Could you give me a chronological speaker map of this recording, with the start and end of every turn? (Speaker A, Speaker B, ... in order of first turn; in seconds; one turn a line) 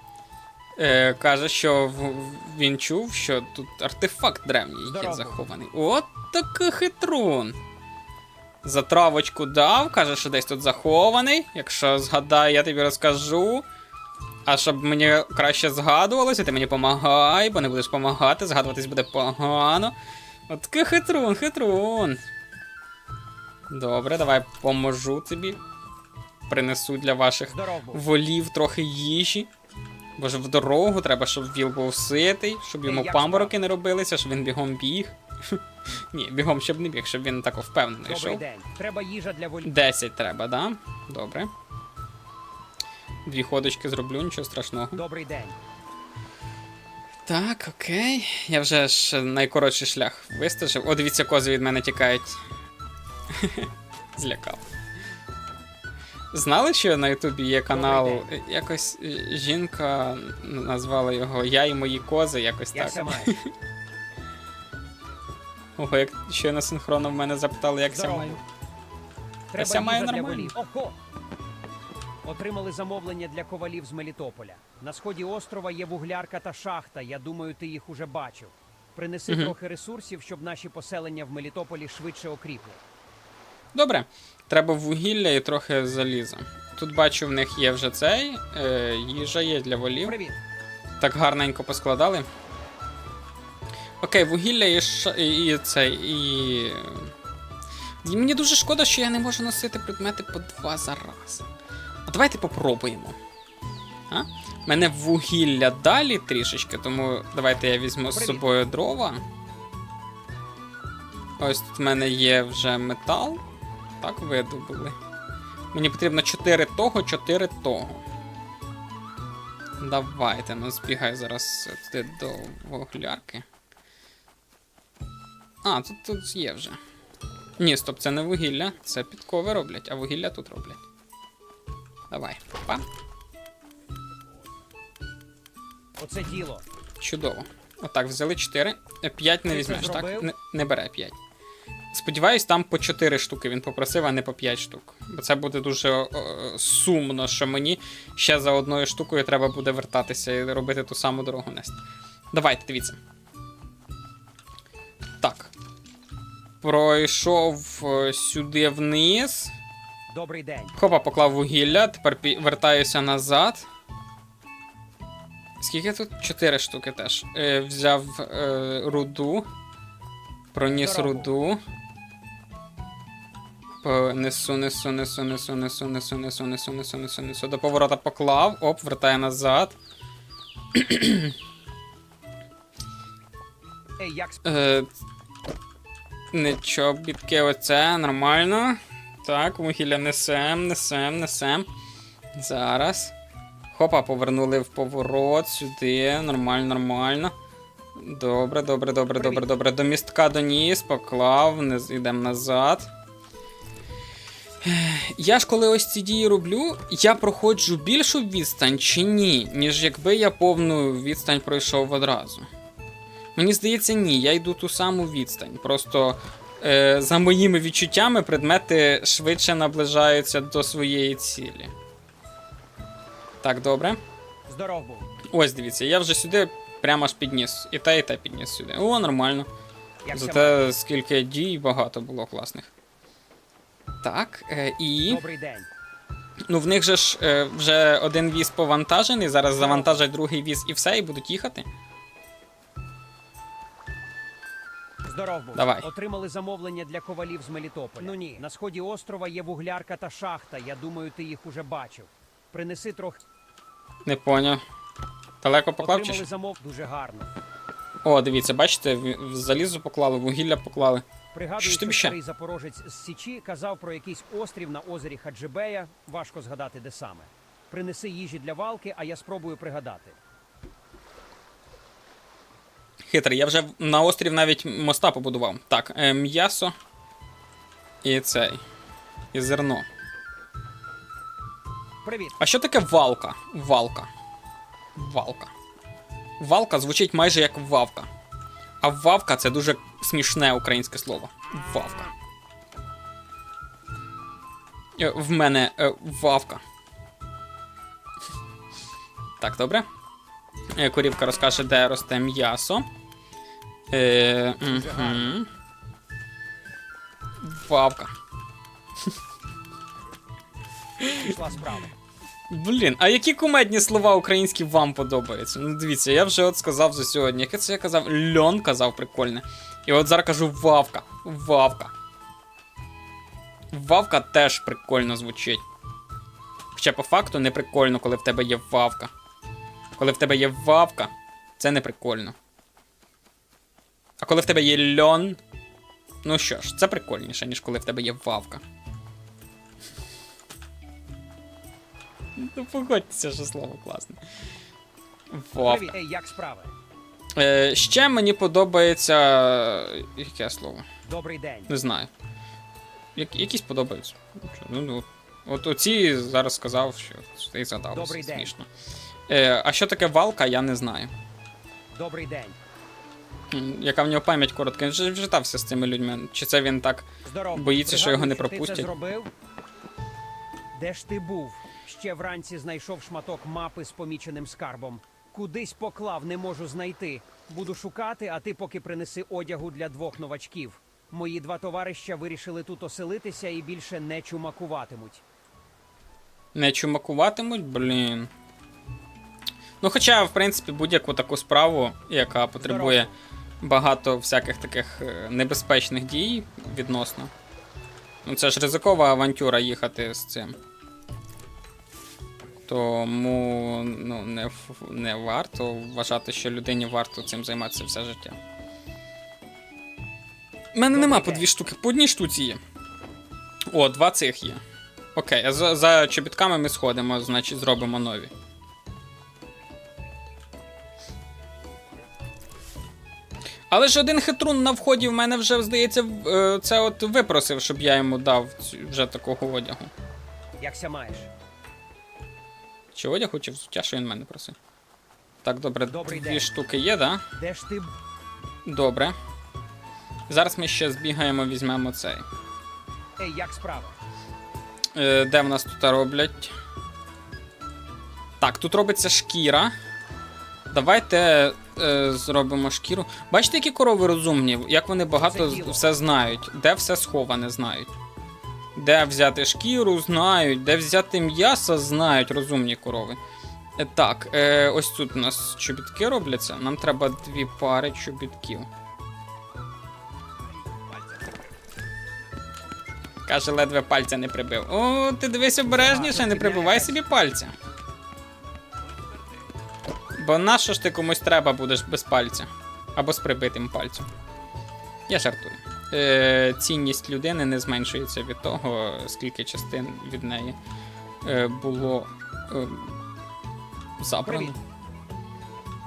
Speaker A: 0.8-7.6
Speaker B: 4.8-5.4
Speaker A: 8.6-13.7
Speaker A: 14.4-19.9
Speaker A: 20.5-22.2
Speaker A: 23.7-25.6
Speaker A: 26.5-29.5
Speaker B: 27.5-28.0
Speaker A: 30.2-35.6
Speaker B: 32.8-33.5
Speaker A: 36.1-38.4
Speaker B: 38.1-39.7
Speaker A: 39.6-41.5
Speaker A: 43.2-45.0
Speaker B: 44.9-45.6
Speaker A: 47.2-52.4
Speaker A: 53.3-54.6
Speaker A: 56.3-63.5
Speaker B: 57.7-58.2
Speaker B: 62.7-63.3
Speaker A: 65.8-68.4
Speaker B: 67.9-68.4
Speaker B: 69.5-71.0
Speaker A: 69.6-70.5
Speaker B: 72.2-82.8
Speaker A: 79.3-79.5
Speaker A: 83.7-90.2
Speaker B: 90.0-90.4
Speaker A: 91.0-92.3
Speaker A: 94.0-97.1
Speaker A: 98.0-101.4
Speaker A: 102.1-103.2
Speaker A: 104.1-109.2
Speaker B: 108.1-108.4
Speaker A: 111.4-113.4
Speaker A: 114.0-115.0
Speaker A: 115.7-118.0
Speaker A: 119.8-123.4
Speaker A: 125.6-126.8
Speaker A: 127.6-130.8
Speaker A: 132.1-132.8
Speaker B: 136.0-136.6
Speaker A: 137.0-141.2
Speaker B: 139.5-140.3
Speaker A: 141.9-151.8
Speaker A: 152.3-153.0
Speaker A: 155.2-155.5
Speaker A: 156.6-159.5
Speaker B: 160.1-160.8
Speaker A: 160.8-163.7
Speaker A: 165.6-169.5
Speaker A: 170.5-171.6
Speaker B: 170.7-171.3
Speaker A: 173.8-179.8
Speaker A: 180.8-181.3
Speaker B: 184.0-184.4
Speaker A: 184.4-184.9
Speaker A: 186.3-191.7
Speaker A: 192.4-193.1
Speaker A: 193.7-197.3
Speaker A: 198.0-202.9
Speaker B: 199.2-199.4
Speaker A: 204.6-212.5
Speaker A: 213.4-221.7
Speaker A: 223.4-224.0
Speaker B: 224.5-225.1
Speaker A: 225.3-229.5
Speaker B: 230.0-230.7
Speaker A: 230.1-232.7
Speaker A: 234.0-235.2
Speaker B: 235.1-235.7
Speaker A: 236.5-241.7
Speaker B: 239.6-240.0
Speaker B: 245.0-253.2
Speaker A: 245.5-245.9
Speaker A: 254.0-254.6
Speaker A: 255.4-256.2
Speaker B: 255.8-257.4
Speaker A: 258.0-261.0
Speaker B: 261.3-270.2
Speaker A: 261.6-262.1
Speaker A: 273.1-276.7
Speaker A: 278.0-278.6
Speaker A: 279.3-279.9
Speaker B: 282.0-282.4
Speaker A: 282.4-284.1
Speaker A: 285.0-285.5
Speaker A: 286.4-288.1
Speaker A: 288.8-292.1
Speaker A: 295.0-296.6
Speaker A: 299.4-299.9
Speaker A: 300.8-302.9
Speaker A: 303.9-305.5
Speaker B: 304.6-305.4
Speaker A: 307.4-308.1
Speaker A: 311.0-311.3
Speaker B: 311.2-311.9
Speaker A: 312.5-321.9
Speaker A: 323.7-325.6
Speaker A: 326.8-329.1
Speaker A: 330.0-332.4
Speaker A: 334.2-335.4
Speaker A: 336.2-338.6
Speaker A: 342.4-344.2
Speaker A: 345.3-346.0
Speaker B: 345.6-346.7
Speaker A: 347.4-350.9
Speaker B: 351.1-351.7
Speaker A: 351.7-352.1
Speaker A: 353.1-358.7
Speaker B: 357.9-358.5
Speaker A: 359.3-361.1
Speaker B: 361.9-362.6
Speaker A: 363.5-368.9
Speaker B: 367.2-369.3
Speaker B: 370.7-385.2
Speaker A: 386.5-388.3
Speaker A: 389.8-393.1
Speaker B: 392.6-393.1
Speaker A: 393.6-397.3
Speaker A: 398.2-400.6
Speaker A: 402.6-408.4
Speaker A: 410.7-412.6
Speaker B: 410.9-411.5
Speaker A: 413.7-414.6
Speaker A: 415.1-418.3
Speaker A: 423.7-429.9
Speaker B: 430.6-431.3
Speaker A: 432.9-434.6
Speaker A: 435.4-437.2
Speaker B: 435.9-436.5
Speaker B: 437.4-437.9
Speaker A: 438.6-439.1
Speaker A: 440.3-442.2
Speaker B: 443.2-444.0
Speaker A: 444.9-446.5
Speaker A: 448.4-449.8
Speaker A: 450.7-457.9
Speaker B: 455.2-455.9
Speaker A: 458.8-463.2
Speaker A: 463.8-468.7
Speaker A: 473.2-477.5
Speaker B: 475.6-477.0
Speaker A: 480.2-484.1
Speaker A: 485.1-490.6
Speaker A: 491.2-493.0
Speaker A: 494.0-494.6
Speaker B: 494.2-494.6